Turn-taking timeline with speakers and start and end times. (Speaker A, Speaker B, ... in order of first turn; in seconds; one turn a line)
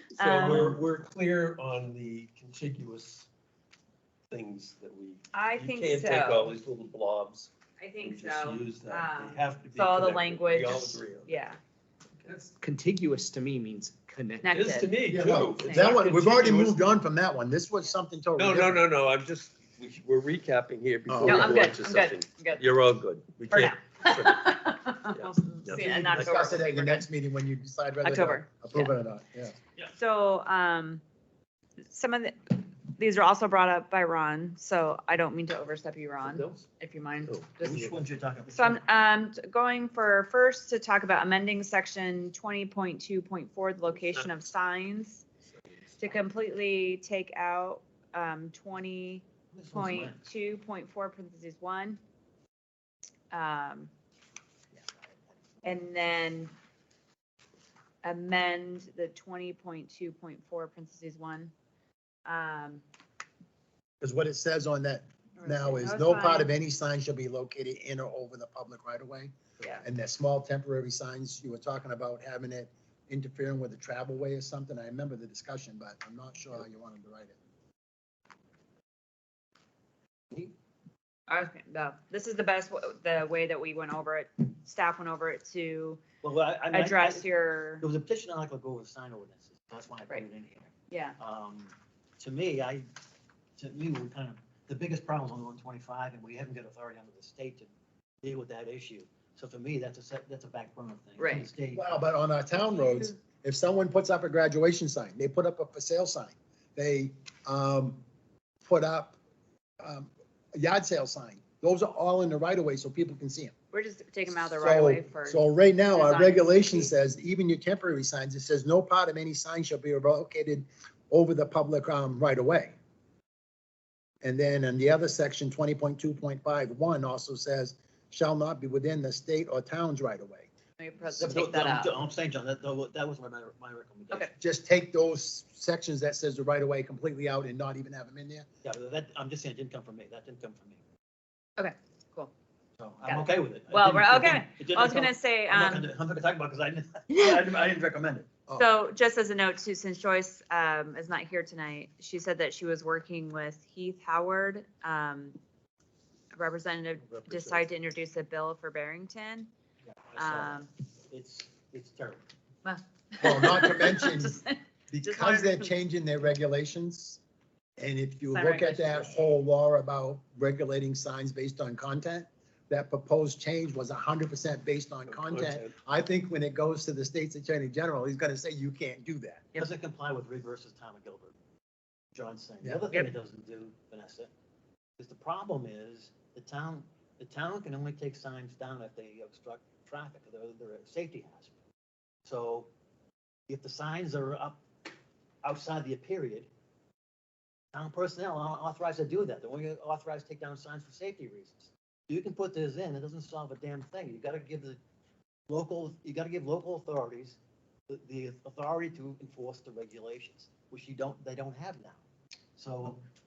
Speaker A: 0.1-0.8
Speaker B: 0.1-3.3
Speaker B: 4.3-7.5
Speaker A: 5.3-6.5
Speaker A: 7.8-11.6
Speaker B: 8.0-11.3
Speaker C: 12.4-14.9
Speaker A: 14.4-16.2
Speaker B: 14.5-16.8
Speaker D: 15.1-18.9
Speaker B: 18.4-26.4
Speaker D: 21.1-21.8
Speaker A: 21.2-22.6
Speaker A: 23.5-27.0
Speaker D: 25.7-29.6
Speaker A: 28.0-28.9
Speaker A: 29.9-31.0
Speaker A: 31.9-37.8
Speaker B: 36.2-36.6
Speaker B: 37.2-38.0
Speaker E: 37.6-38.8
Speaker A: 38.5-45.2
Speaker B: 43.9-44.4
Speaker B: 45.5-46.0
Speaker A: 46.0-52.0
Speaker E: 49.5-50.2
Speaker A: 53.3-53.9
Speaker A: 55.6-56.5
Speaker A: 58.0-61.5
Speaker A: 62.2-62.8
Speaker D: 64.0-77.4
Speaker A: 65.4-66.5
Speaker A: 81.3-86.0
Speaker E: 86.2-87.3
Speaker A: 86.7-87.8
Speaker E: 87.8-92.9
Speaker A: 90.9-91.2
Speaker E: 93.6-97.7
Speaker E: 98.2-101.9
Speaker A: 101.2-101.5
Speaker D: 101.7-108.0
Speaker D: 108.6-109.2
Speaker D: 109.8-113.5
Speaker A: 113.7-116.9
Speaker D: 114.3-122.8
Speaker D: 124.2-130.5
Speaker A: 130.8-131.9
Speaker E: 131.2-134.3
Speaker D: 134.4-138.5
Speaker E: 138.6-140.8
Speaker A: 141.6-142.3
Speaker E: 142.8-148.3
Speaker A: 143.1-145.9
Speaker A: 147.1-147.4
Speaker A: 148.5-155.4
Speaker A: 156.3-159.5
Speaker E: 157.0-157.6
Speaker E: 159.9-162.2
Speaker A: 160.2-160.7
Speaker A: 162.7-165.7
Speaker D: 163.2-167.2
Speaker D: 167.8-179.5
Speaker A: 168.3-169.3
Speaker B: 175.1-175.7
Speaker E: 179.6-181.3
Speaker E: 182.1-184.3
Speaker E: 185.0-191.5
Speaker E: 192.2-192.7
Speaker E: 193.5-194.6
Speaker E: 195.4-196.5
Speaker E: 197.7-204.8
Speaker E: 205.5-207.4
Speaker E: 207.9-212.0
Speaker E: 212.6-213.0